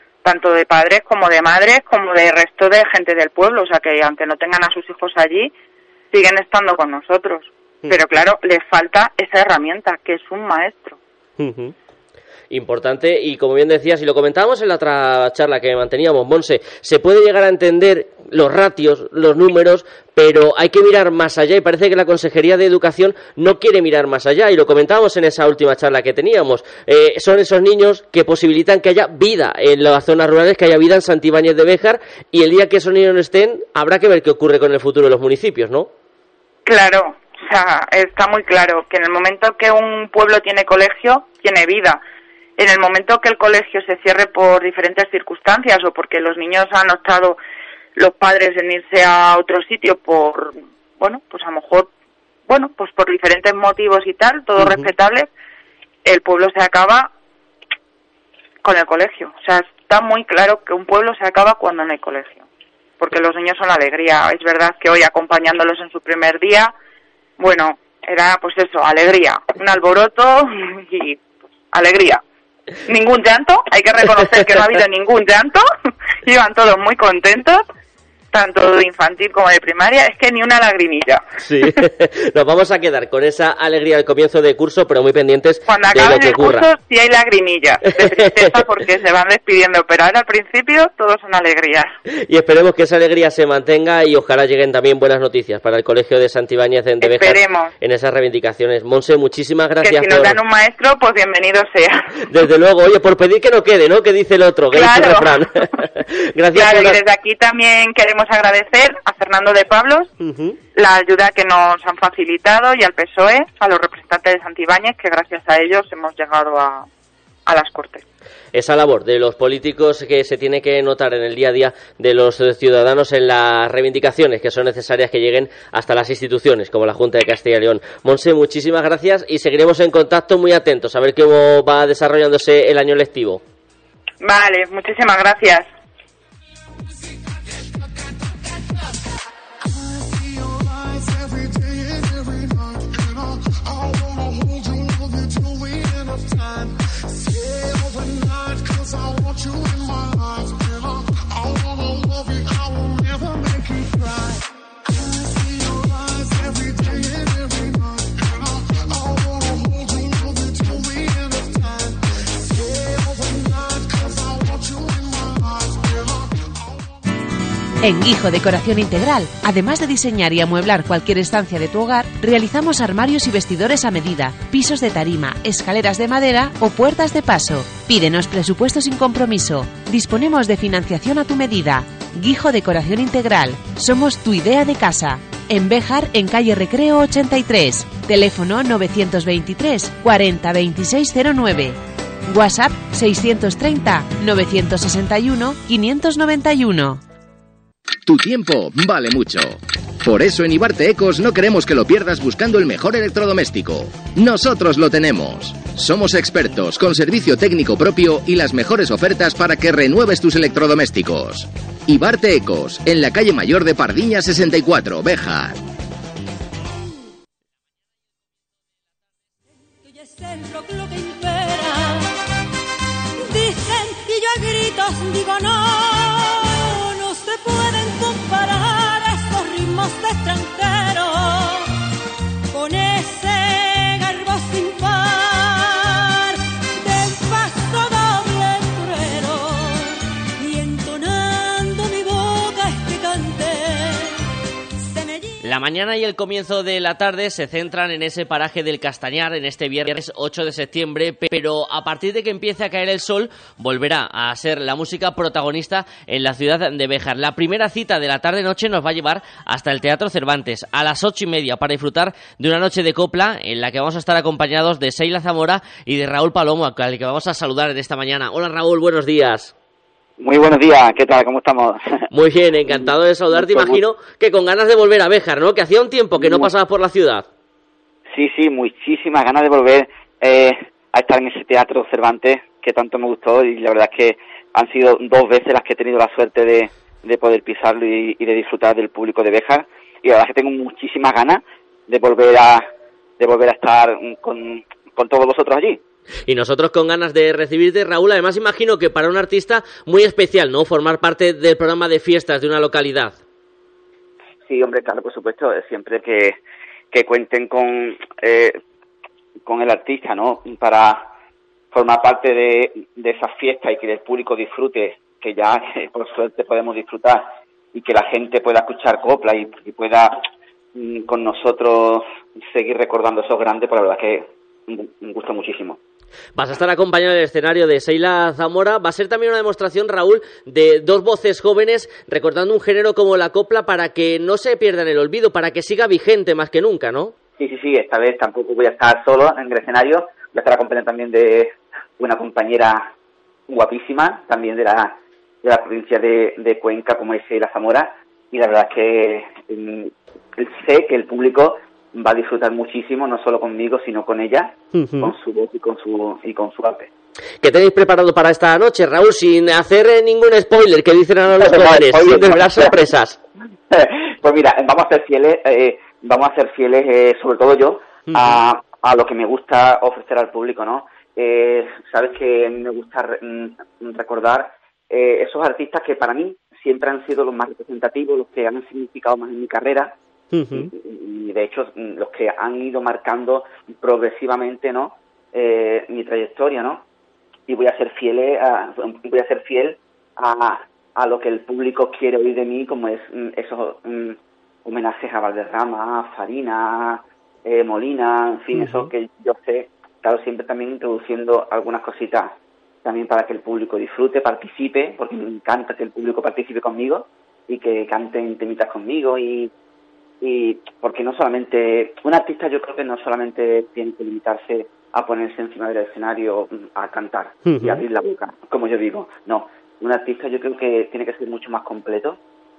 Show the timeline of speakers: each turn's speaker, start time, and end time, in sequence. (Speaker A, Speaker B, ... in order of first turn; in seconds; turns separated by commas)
Speaker A: 0.2-5.5, Speaker A: 6.1-11.0, Speaker B: 11.4-11.7, Speaker B: 12.5-35.9, Speaker A: 36.7-42.0, Speaker A: 42.6-47.4, Speaker A: 48.0-51.9, Speaker A: 52.5-55.3, Speaker A: 56.0-57.1, Speaker A: 58.6-62.4, Speaker A: 63.0-66.7, Speaker A: 67.4-72.2, Speaker A: 72.9-75.6, Speaker A: 76.2-77.7, Speaker A: 78.3-81.2, Speaker B: 81.4-86.7, Speaker A: 85.7-91.9, Speaker B: 88.0-88.5, Speaker B: 92.1-100.4, Speaker A: 97.0-97.7, Speaker A: 99.8-102.0, Speaker B: 102.3-107.0, Speaker A: 104.7-105.5, Speaker A: 106.5-110.1, Speaker B: 110.2-110.6, Speaker A: 110.8-116.9, Speaker A: 117.5-118.0, Speaker B: 118.5-133.4, Speaker A: 134.2-135.7, Speaker C: 167.8-197.0, Speaker D: 198.1-215.6, Speaker E: 219.8-222.1, Speaker E: 223.2-231.7, Speaker E: 232.5-244.1, Speaker E: 244.8-245.4, Speaker B: 245.4-269.5, Speaker F: 270.2-271.8, Speaker B: 272.1-277.3, Speaker F: 272.7-273.8, Speaker F: 276.2-276.5, Speaker F: 278.1-295.8, Speaker B: 296.3-303.2, Speaker F: 304.5-306.4, Speaker F: 306.9-308.6, Speaker F: 309.5-311.1, Speaker F: 311.7-320.2, Speaker F: 320.8-325.8, Speaker B: 326.4-337.1, Speaker F: 337.4-342.9, Speaker F: 343.5-356.9, Speaker B: 354.7-355.1, Speaker B: 357.4-363.2, Speaker F: 361.3-362.8, Speaker F: 363.7-380.0, Speaker B: 368.1-368.4, Speaker B: 380.3-380.7, Speaker F: 380.5-386.9, Speaker F: 387.5-409.5, Speaker B: 398.6-398.9, Speaker F: 410.2-422.2, Speaker B: 417.5-417.8